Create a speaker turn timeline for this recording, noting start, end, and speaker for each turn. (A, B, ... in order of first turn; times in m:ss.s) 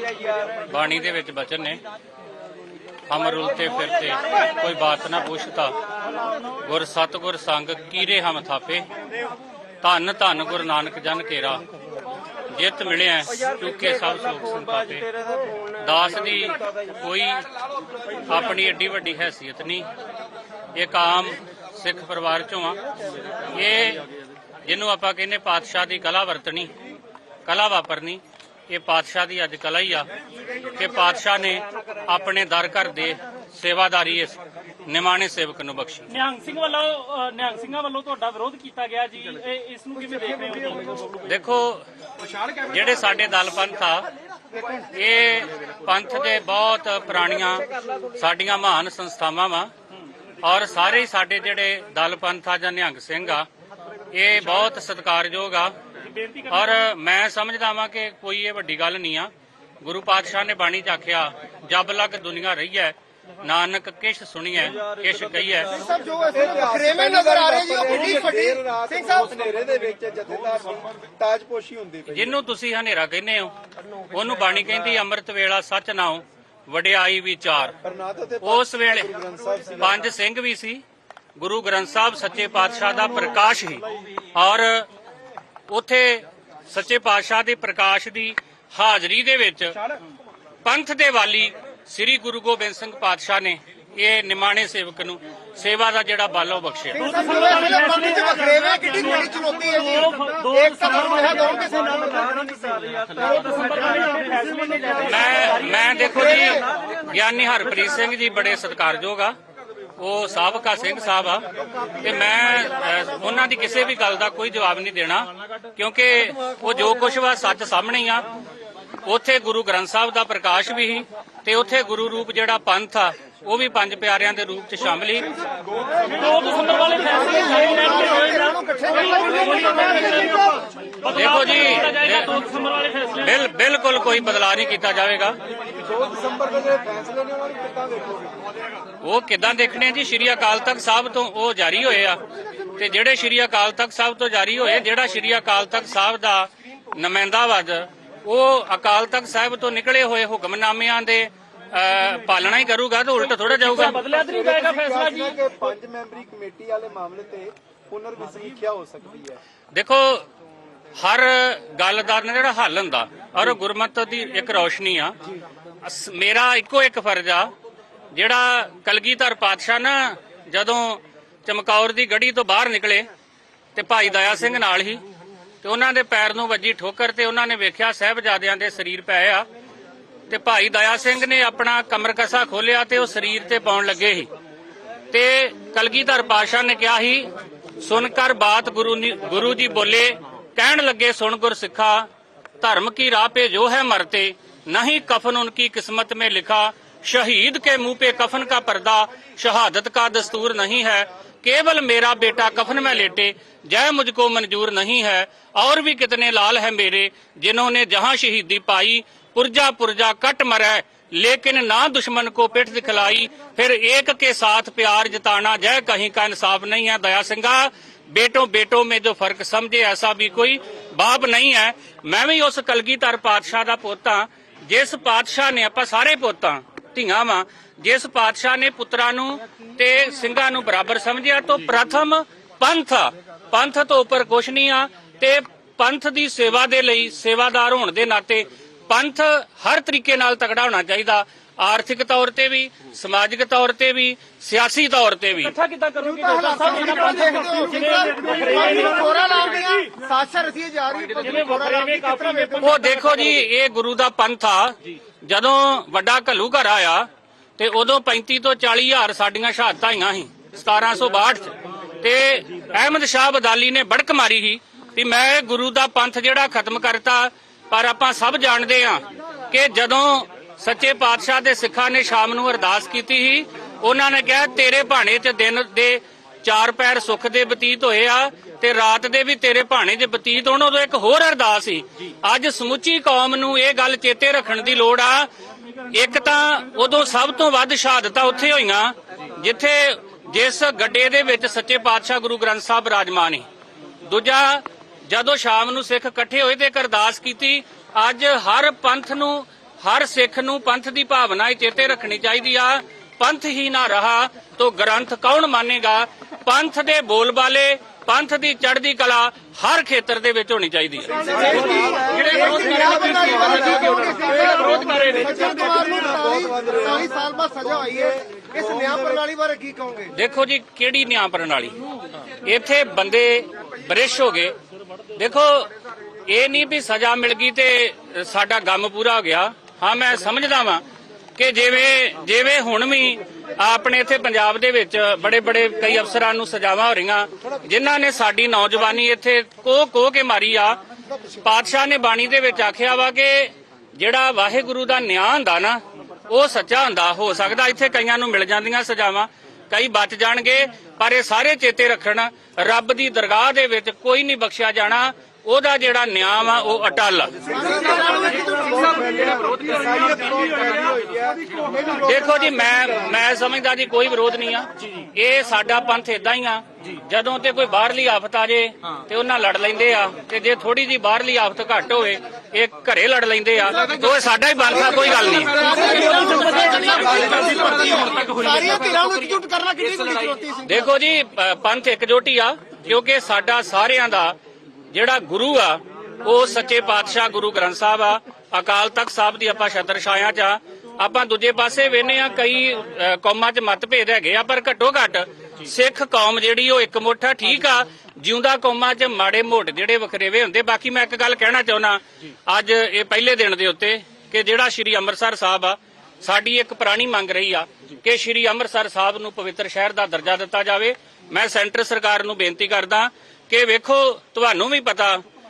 0:00.6-0:01.8 A
0:03.1-0:05.8 A
0:06.6-0:08.9 A
0:09.8-0:11.6 A
0:12.5-0:15.0 A
0:15.8-0:17.4 A
0:18.3-0:19.9 A
0:20.8-0:22.8 A
0:23.5-0:24.0 A
0:24.6-0:26.7 A
0:27.5-0:30.1 A
0:30.7-0:36.1 A
0:36.1-0:41.2 B
0:41.2-0:41.8 A
0:42.5-0:44.1 A
0:44.9-0:49.7 A
0:50.4-0:53.5 A
0:54.1-0:55.7 A
0:56.2-0:56.5 B
0:56.5-1:05.7 A
1:05.7-1:09.4 C
1:06.3-1:12.4 D
1:12.1-1:13.5 A
1:14.1-1:17.8 A
1:17.8-1:20.0 D
1:18.4-1:19.1 A
1:19.8-1:20.8 A
1:21.4-1:24.9 A
1:25.7-1:29.8 A
1:30.6-1:37.1 A
1:36.9-1:43.6 C
1:37.0-1:39.2 B
1:39.8-1:41.4 B
1:43.1-1:46.0 B
1:45.1-1:49.4 A
1:46.0-1:46.6 C
1:50.0-1:51.5 A
1:52.0-1:58.2 A
1:59.0-2:05.3 A
2:06.1-2:13.3 B
2:07.1-2:10.6 C
2:11.1-2:12.4 A
2:13.2-2:15.4 A
2:15.7-2:18.6 D
2:19.0-2:22.2 A
2:22.8-2:34.0 A
2:33.7-2:35.4 B
2:34.0-2:39.4 D
2:39.7-2:40.3 A
2:41.0-2:45.2 A
2:45.8-2:47.5 A
2:48.1-2:53.1 A
2:53.8-2:55.0 A
2:55.6-2:59.5 A
3:00.3-3:04.3 A
3:05.1-3:12.1 A
3:12.6-4:05.6 A
4:05.4-4:09.9 B
4:06.0-4:12.8 C
4:11.2-4:13.3 B
4:12.6-4:45.3 A
4:45.9-4:53.4 A
4:54.0-5:11.2 A
5:11.1-5:17.1 D
5:11.2-5:20.1 C
5:17.8-5:19.2 D
5:20.1-5:21.8 A
5:22.4-5:24.5 A
5:25.2-5:25.7 A
5:26.3-5:30.8 A
5:31.4-5:40.8 A
5:41.4-5:57.4 A
5:57.5-6:03.0 D
5:57.5-5:59.6 C
6:01.9-6:15.8 A
6:14.7-6:20.9 C
6:20.7-6:24.4 A
6:24.9-6:55.2 A